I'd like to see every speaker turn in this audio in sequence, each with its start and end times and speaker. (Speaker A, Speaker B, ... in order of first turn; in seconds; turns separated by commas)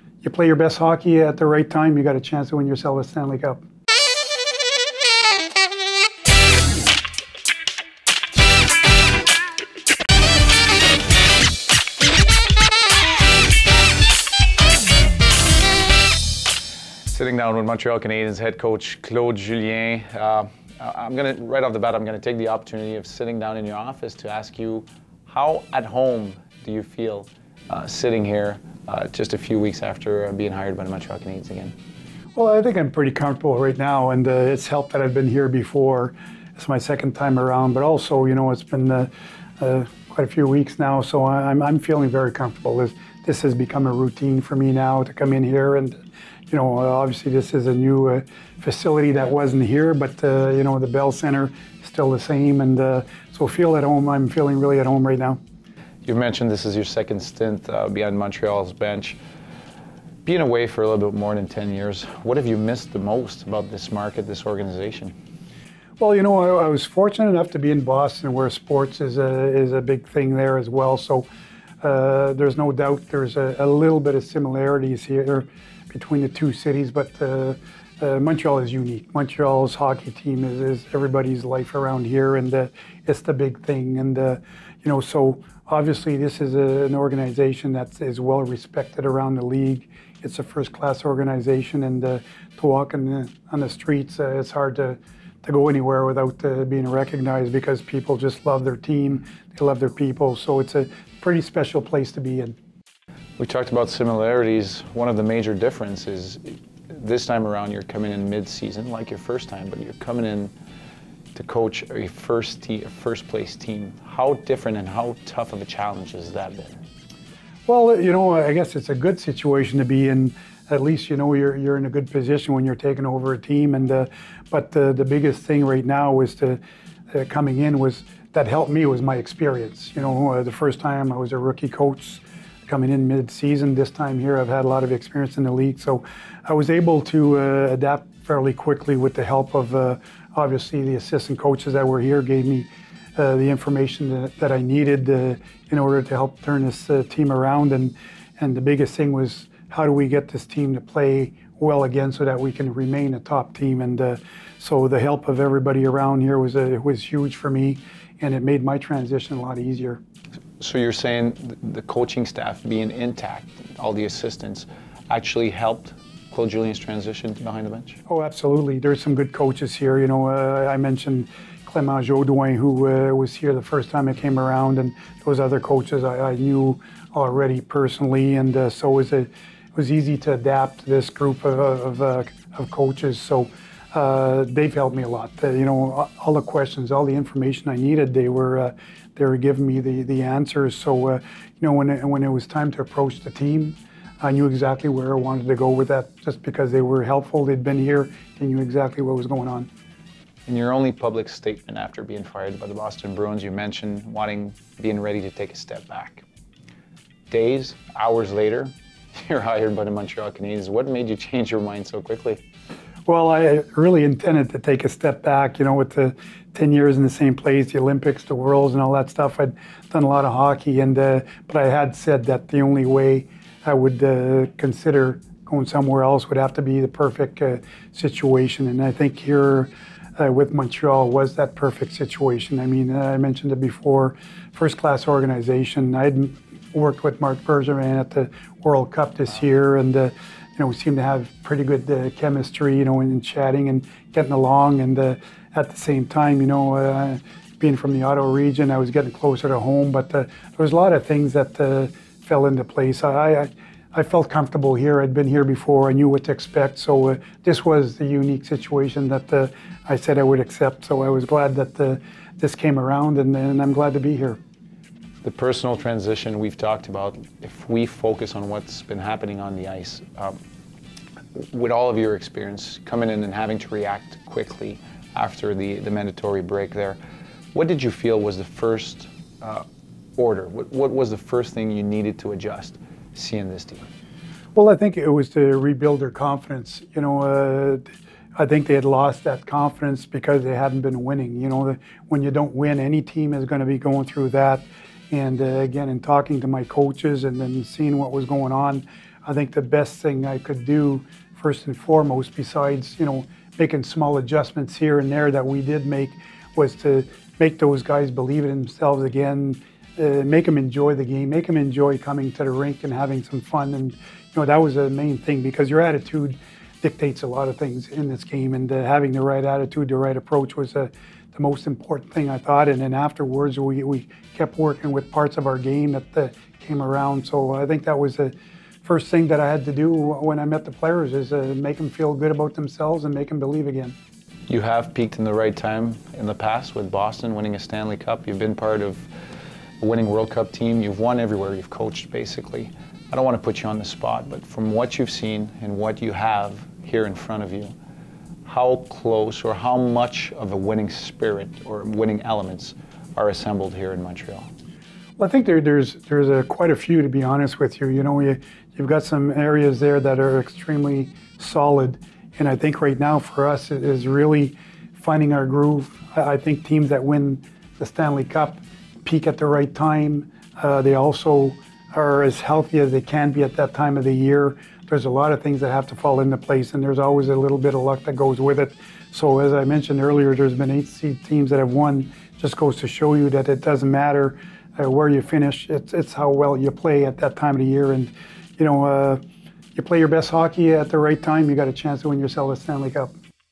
Speaker A: 0.2-3.6, Speaker B: 17.1-31.7, Speaker A: 32.3-55.4, Speaker B: 56.0-59.2, Speaker B: 60.2-65.1, Speaker A: 66.0-71.3, Speaker A: 71.8-102.5, Speaker B: 103.4-110.5, Speaker B: 111.3-116.8, Speaker A: 117.7-126.6, Speaker A: 127.1-160.0, Speaker B: 160.6-168.0, Speaker A: 168.1-199.7, Speaker B: 200.4-206.2, Speaker B: 207.3-212.4, Speaker A: 213.1-264.4, Speaker B: 265.2-270.4, Speaker B: 271.4-277.0, Speaker B: 277.5-279.6, Speaker B: 280.2-283.9, Speaker A: 284.5-333.9, Speaker B: 334.5-339.1, Speaker B: 339.8-347.7, Speaker B: 348.4-354.5, Speaker A: 355.2-389.2, Speaker A: 389.7-393.1